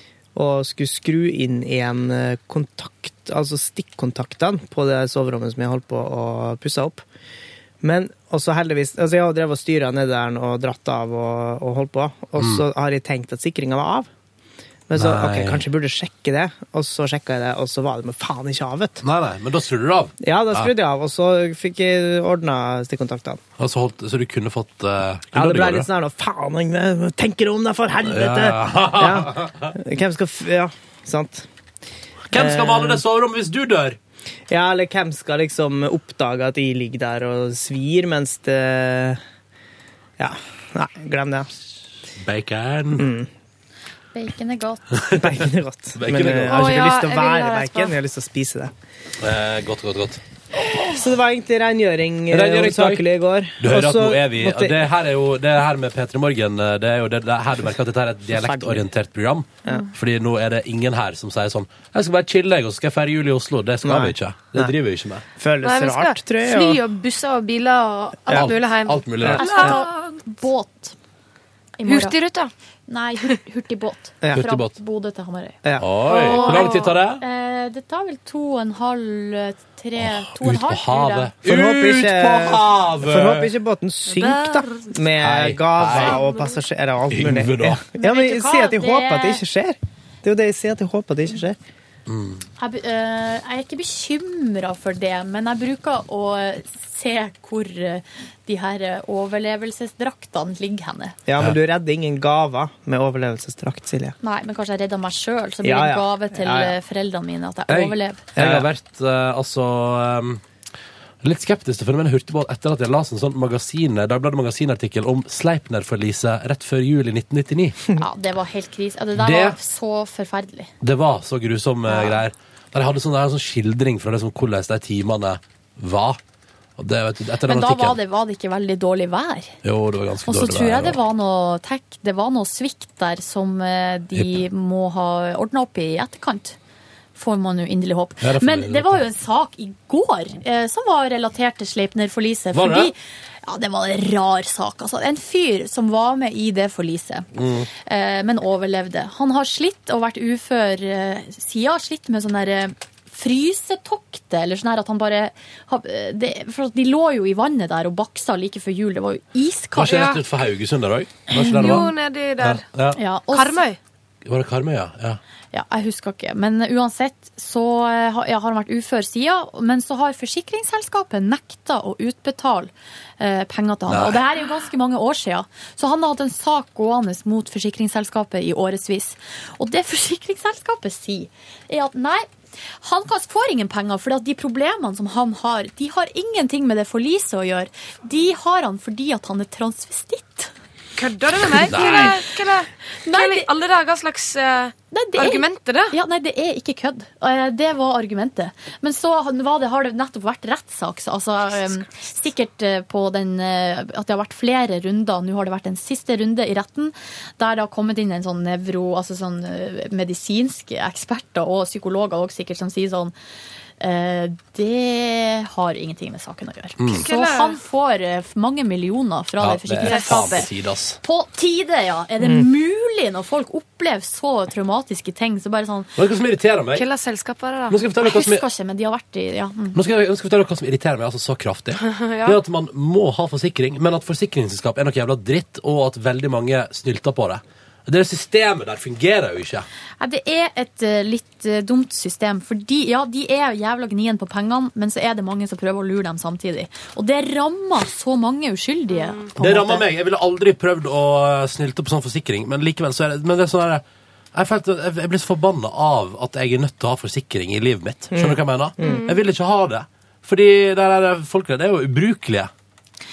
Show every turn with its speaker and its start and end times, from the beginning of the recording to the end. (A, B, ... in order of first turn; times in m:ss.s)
0:00.3-0:07.0 A
0:07.8-0:14.1 A
0:12.4-0:12.6 B
0:14.9-0:19.0 A
0:14.9-0:15.6 B
0:19.0-0:20.7 B
0:20.2-0:23.4 A
0:23.6-0:25.9 B
0:25.3-0:31.5 A
0:28.0-0:29.7 B
0:32.3-0:34.0 B
0:32.3-0:33.0 A
0:34.5-0:39.2 A
0:40.2-0:41.5 A
0:42.2-0:43.1 B
0:43.0-0:43.3 A
0:44.1-0:45.0 C
0:44.9-0:45.2 B
0:45.1-0:48.7 A
0:46.0-0:46.6 B
0:46.5-0:47.9 D
0:49.2-0:50.2 B
0:50.6-0:54.8 A
0:52.3-0:53.0 B
0:53.6-1:05.2 B
0:58.3-0:58.8 A
1:03.8-1:04.7 A
1:05.4-1:06.8 A
1:05.6-1:10.2 D
1:08.3-1:09.5 B
1:09.2-1:09.4 A
1:09.4-1:10.9 C
1:11.8-1:12.2 C
1:11.8-1:12.5 D
1:12.9-1:21.3 C
1:14.3-1:14.7 B
1:15.6-1:15.9 A
1:15.8-1:17.2 B
1:16.2-1:16.9 D
1:20.0-1:23.5 B
1:21.4-1:31.6 A
1:24.1-1:25.0 D
1:25.2-1:26.2 B
1:26.1-1:26.5 D
1:27.1-1:27.8 B
1:28.0-1:29.4 C
1:32.1-1:32.4 B
1:32.6-1:41.2 C
1:41.2-1:44.2 A
1:44.2-1:48.2 C
1:45.6-1:46.8 A
1:47.7-1:50.4 B
1:48.4-1:48.7 A
1:51.2-1:57.8 B
1:58.0-2:00.7 C
1:59.2-1:59.6 B
2:00.8-2:06.2 B
2:01.9-2:02.2 C
2:06.8-2:08.0 B
2:07.4-2:09.6 C
2:09.6-2:11.0 B
2:10.2-2:16.6 C
2:17.2-2:27.3 C
2:18.2-2:19.0 B
2:22.5-2:22.9 B
2:27.3-2:27.7 B
2:27.8-2:40.1 C
2:39.8-2:43.0 B
2:39.8-2:40.2 D
2:41.3-2:41.8 C
2:41.6-2:42.6 D
2:42.9-2:43.6 C
2:43.3-2:43.8 D
2:44.2-2:45.2 B
2:45.5-3:02.3 C
2:53.9-2:54.2 B
3:02.8-3:10.5 C
3:11.0-3:16.0 D
3:11.6-3:12.2 B
3:11.7-3:12.2 C
3:13.0-3:13.5 C
3:14.9-3:33.1 C
3:33.8-3:45.9 C
3:36.8-3:37.0 B
3:37.0-3:37.6 D
3:39.4-3:41.0 B
3:39.8-3:40.4 D
3:46.0-3:46.8 B
3:46.7-3:47.8 D
3:47.7-3:48.4 B
3:48.0-3:49.8 C
3:49.7-3:59.7 B
3:51.8-3:52.4 D
4:00.0-4:09.8 C
4:08.9-4:09.3 D
4:09.4-4:22.5 B
4:18.1-4:19.0 A
4:18.8-4:19.2 D